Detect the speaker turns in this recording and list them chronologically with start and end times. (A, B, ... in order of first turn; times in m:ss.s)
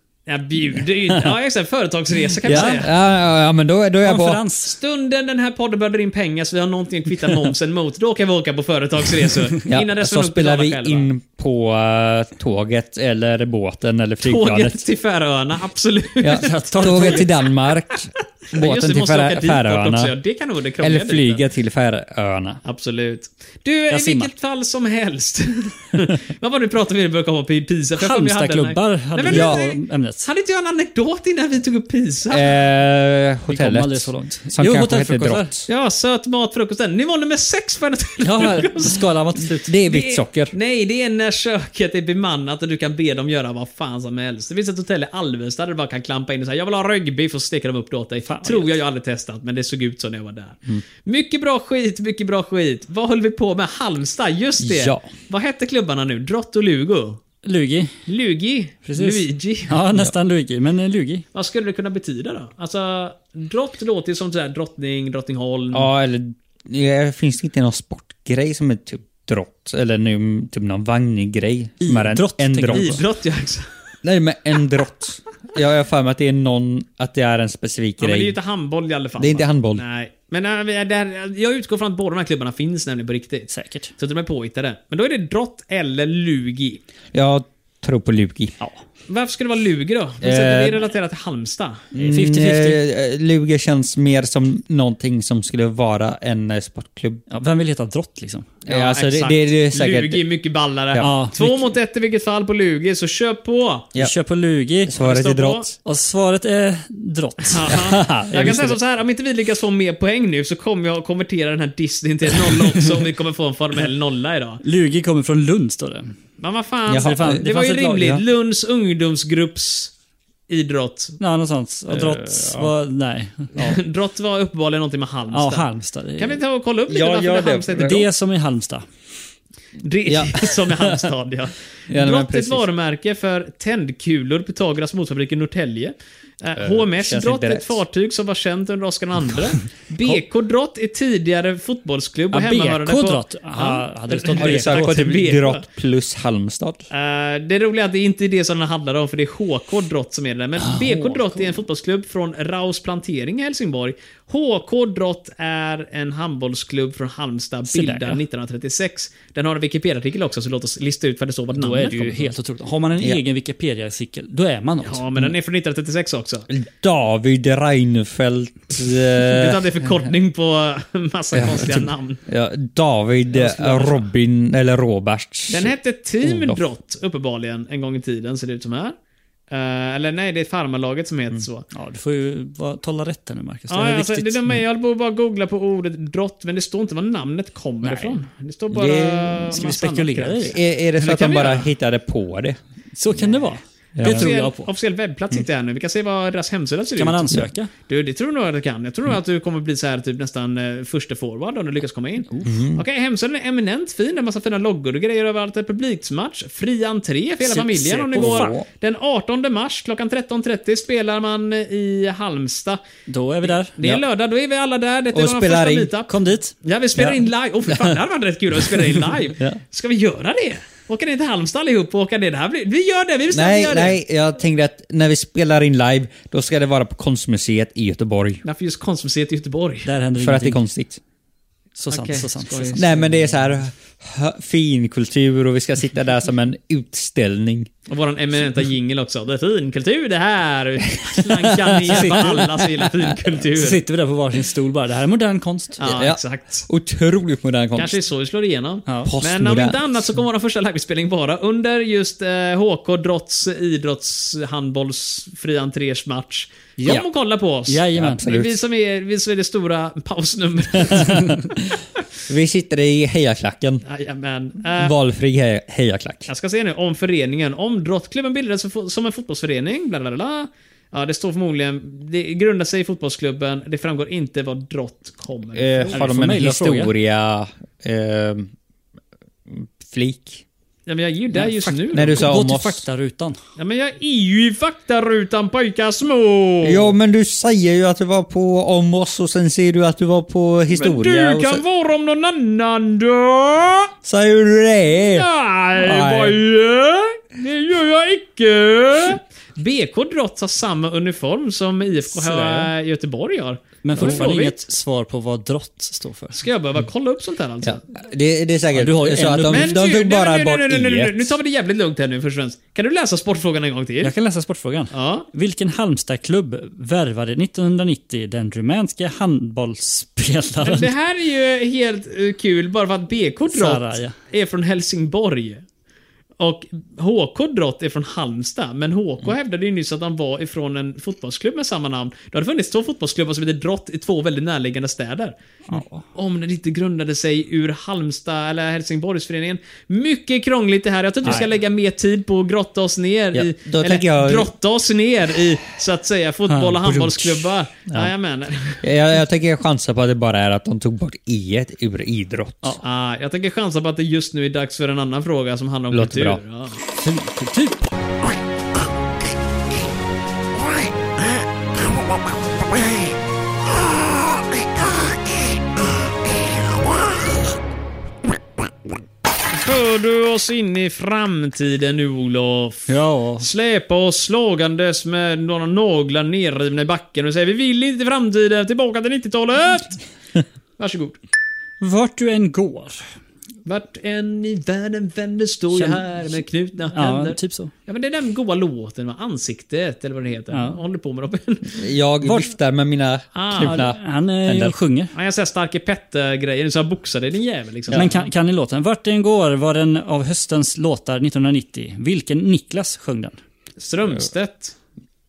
0:00.3-0:02.9 A
0:02.4-0:04.4 B
0:02.5-0:02.8 C
0:04.0-0:04.8 C
0:04.6-0:11.1 A
0:09.7-0:14.8 B
0:14.2-0:17.3 A
0:16.2-0:20.2 B
0:16.3-0:17.3 C
0:18.5-0:21.4 A
0:20.8-0:22.6 B
0:22.6-0:32.6 A
0:23.9-0:24.3 C
0:28.0-0:30.3 C
0:29.3-0:29.6 B
0:32.3-0:35.7 B
0:33.5-0:35.5 C
0:35.7-0:39.0 A
0:38.2-0:39.7 C
0:39.6-0:40.5 B
0:39.9-0:57.2 A
0:48.3-0:48.8 C
0:54.6-0:55.1 B
0:57.4-0:57.9 C
0:58.1-0:59.8 A
0:58.9-1:01.2 C
1:01.3-1:05.9 A
1:05.7-1:13.0 B
1:11.8-1:13.0 C
1:12.7-1:13.7 A
1:14.0-1:18.4 B
1:18.0-1:26.8 A
1:19.2-1:19.8 B
1:23.5-1:23.9 C
1:27.1-1:28.6 B
1:29.1-1:31.9 A
1:30.2-1:30.8 B
1:31.9-1:37.2 B
1:32.0-1:32.8 C
1:37.3-1:38.6 C
1:38.7-1:40.2 B
1:38.7-1:43.9 A
1:41.0-1:41.7 C
1:44.0-1:45.0 C
1:44.9-1:45.8 B
1:45.0-1:45.7 A
1:45.8-1:47.8 C
1:47.5-1:54.6 A
1:47.7-1:48.8 B
1:54.6-1:56.1 C
1:56.4-1:59.9 A
1:56.9-1:58.2 B
1:57.0-1:58.0 C
2:00.5-2:01.2 A
2:01.2-2:03.8 C
2:01.9-2:02.7 B
2:03.6-2:08.0 A
2:05.3-2:06.4 C
2:06.9-2:08.0 B
2:07.8-2:08.8 C
2:09.8-2:25.6 A
2:10.1-2:11.1 B
2:11.9-2:12.7 B
2:16.6-2:17.8 B
2:22.3-2:25.1 C
2:24.4-2:26.9 B
2:26.9-2:42.3 A
2:30.6-2:31.6 C
2:37.7-2:38.2 C
2:41.6-2:45.1 C
2:44.8-2:46.5 A
2:46.5-2:50.0 B
2:49.2-2:52.2 A
2:51.3-2:56.6 B
2:53.3-2:54.1 A
2:55.5-2:59.0 A
2:59.5-3:01.7 A
3:01.7-3:04.5 C
3:03.7-3:11.7 A
3:07.8-3:08.2 C
3:08.7-3:09.6 B
3:09.5-3:10.6 C
3:10.4-3:12.6 B
3:13.0-3:14.7 C
3:14.0-3:14.3 B
3:14.0-3:32.8 A
3:17.0-3:17.7 C
3:22.4-3:22.8 B
3:27.4-3:28.6 C
3:28.2-3:28.7 B
3:33.1-3:33.7 C
3:33.4-3:44.0 A
3:35.1-3:35.9 B
3:36.1-3:36.5 C
3:43.3-3:48.4 B
3:48.4-3:49.9 A
3:49.9-3:50.6 C
3:50.2-3:51.0 B
3:51.8-3:53.1 C
3:51.9-3:53.0 A
3:52.7-3:57.7 B
3:57.9-4:03.8 A
4:01.0-4:02.9 B
4:01.9-4:02.5 C
4:03.4-4:05.8 C
4:05.8-4:06.6 A
4:05.8-4:08.0 B
4:07.8-4:21.5 A
4:09.0-4:09.8 B
4:16.8-4:17.1 C
4:17.7-4:18.3 C
4:18.0-4:18.6 B
4:22.3-4:23.8 B
4:23.8-4:24.9 A
4:24.8-4:26.3 B
4:26.3-4:36.0 A
4:35.5-4:38.5 B
4:35.9-4:36.9 C
4:39.5-4:40.4 B
4:40.9-4:42.3 A
4:41.3-4:43.4 C
4:41.9-4:42.8 B
4:43.6-4:46.9 A
4:46.6-4:51.6 B
4:50.7-4:53.9 A
4:54.0-4:56.4 B
4:55.0-5:04.6 A
5:02.1-5:02.7 C
5:03.8-5:06.4 C
5:06.3-5:07.8 A
5:07.6-5:11.4 B
5:08.7-5:09.8 C
5:09.5-5:14.1 A
5:14.0-5:20.9 C
5:14.9-5:15.3 A
5:20.6-5:25.6 A
5:23.5-5:24.2 C
5:26.4-5:48.8 A
5:35.7-5:36.0 C
5:41.2-5:41.5 C
5:43.3-5:44.5 B
5:46.5-5:47.4 C
5:48.8-5:52.8 B
5:52.8-5:56.8 A
5:55.9-5:56.4 B
5:57.0-5:57.8 C
6:09.5-6:20.0 A
6:12.9-6:13.5 C
6:20.8-6:21.2 A
6:21.8-6:23.0 C
6:23.7-6:31.8 A
6:25.7-6:26.0 C
6:26.9-6:27.7 C
6:30.5-6:30.8 C
6:31.7-6:34.8 B
6:32.2-6:32.5 C
6:33.4-6:33.9 A
6:33.6-6:35.1 C
6:35.1-6:38.3 A
6:37.9-6:43.4 C
6:43.8-6:44.8 A